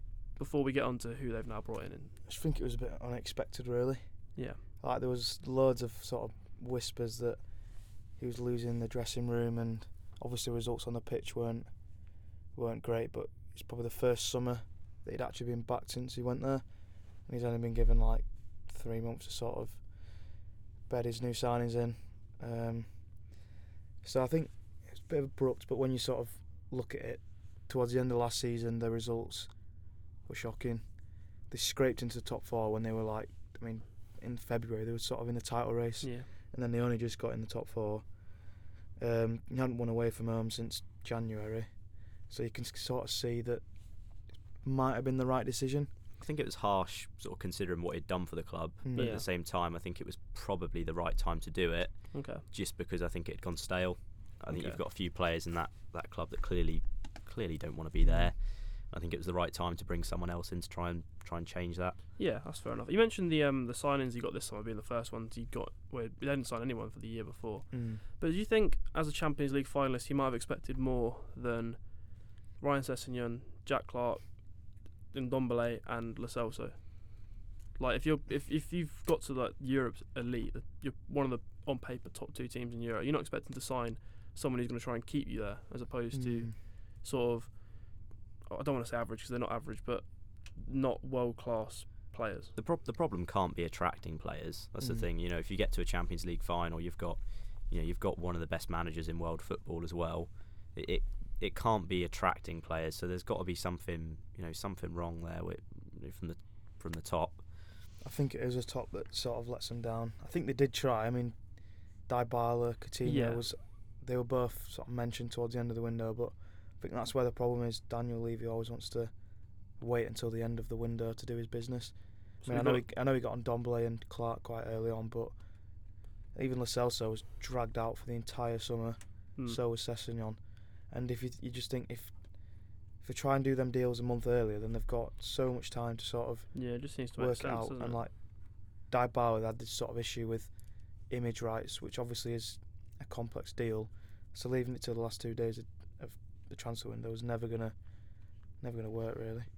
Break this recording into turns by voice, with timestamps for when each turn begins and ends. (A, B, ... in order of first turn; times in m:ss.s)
0:00.4-0:02.1 A
0:02.3-0:04.0 B
0:04.4-0:04.6 A
0:04.8-0:07.5 B
0:08.1-0:11.7 B
0:12.5-0:16.7 B
0:17.2-0:19.8 B
0:20.9-0:22.9 B
0:24.0-0:29.6 B
0:30.3-0:31.0 B
0:31.5-0:38.2 B
0:36.0-0:36.3 A
0:39.0-0:43.7 B
0:44.6-0:45.9 B
0:46.2-1:02.0 C
0:48.8-0:49.2 B
0:48.9-0:49.2 A
0:52.1-0:52.4 A
0:54.5-0:54.8 A
0:58.0-0:58.3 B
1:02.2-1:32.5 A
1:07.7-1:08.0 B
1:26.1-1:26.6 B
1:32.6-1:47.5 C
1:34.8-1:35.1 B
1:48.0-1:51.4 B
1:52.1-1:59.1 B
1:53.0-1:53.4 A
1:59.8-2:05.4 B
2:02.4-2:02.8 A
2:06.3-2:12.2 B
2:13.0-2:18.2 B
2:16.5-2:18.0 A
2:18.8-2:20.5 B
2:21.1-2:27.8 B
2:28.6-2:29.5 B